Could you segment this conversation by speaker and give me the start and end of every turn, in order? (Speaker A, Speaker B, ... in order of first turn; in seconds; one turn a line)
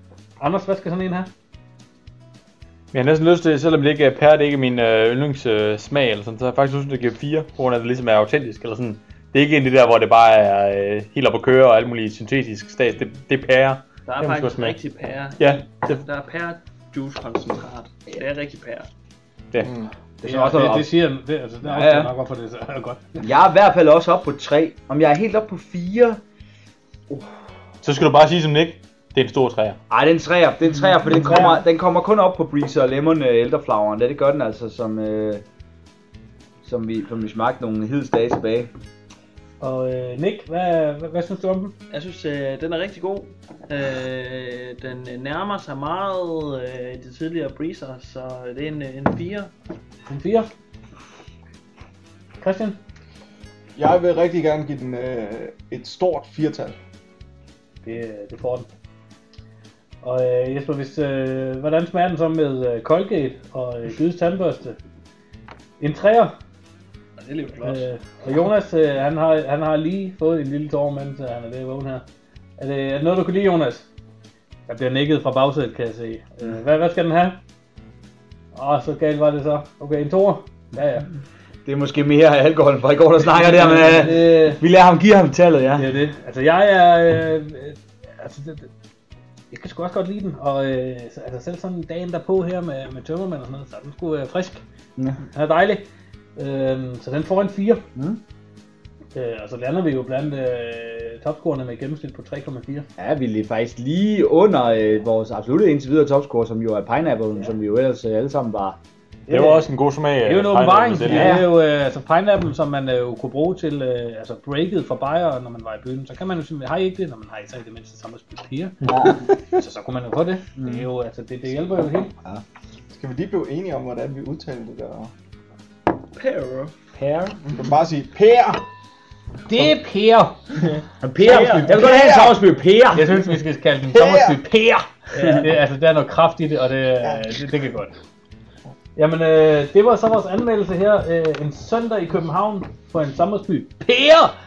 Speaker A: 0.4-1.3
Speaker B: 2.9-14.8
Speaker C: 14.1-18.9
Speaker B: 15.4-16.0
Speaker D: 19.6-19.9
Speaker E: 20.2-20.9
Speaker A: 20.2-23.3
Speaker E: 21.6-22.1
Speaker E: 23.2-26.2
Speaker B: 27.8-29.8
Speaker E: 29.9-35.4
Speaker A: 31.1-31.6
Speaker E: 36.6-38.7
Speaker A: 39.6-41.8
Speaker C: 41.9-49.5
Speaker A: 50.1-50.5
Speaker A: 52.4-52.8
Speaker D: 53.8-56.8
Speaker A: 57.8-58.7
Speaker A: 60.0-64.8
Speaker A: 65.8-66.3
Speaker C: 67.2-67.8
Speaker A: 67.6-72.0
Speaker A: 72.6-73.9
Speaker A: 74.7-77.4
Speaker A: 78.5-81.1
Speaker E: 81.6-85.9
Speaker A: 83.2-84.6
Speaker A: 85.8-88.7
Speaker A: 89.5-94.6
Speaker A: 95.3-97.8
Speaker E: 97.9-98.2
Speaker A: 99.1-102.9
Speaker E: 103.0-108.8
Speaker A: 109.3-109.7
Speaker B: 109.3-111.4
Speaker A: 110.2-122.1
Speaker E: 111.0-111.5
Speaker E: 118.8-119.4
Speaker E: 120.6-120.9
Speaker D: 122.9-125.1
Speaker C: 126.1-126.7
Speaker E: 126.9-127.4
Speaker D: 127.5-128.6
Speaker A: 129.4-130.6
Speaker C: 130.6-131.7
Speaker E: 131.0-133.2
Speaker A: 131.3-131.7
Speaker D: 131.6-132.4
Speaker A: 132.9-137.9
Speaker D: 133.9-134.4
Speaker E: 135.1-135.5
Speaker A: 138.9-144.3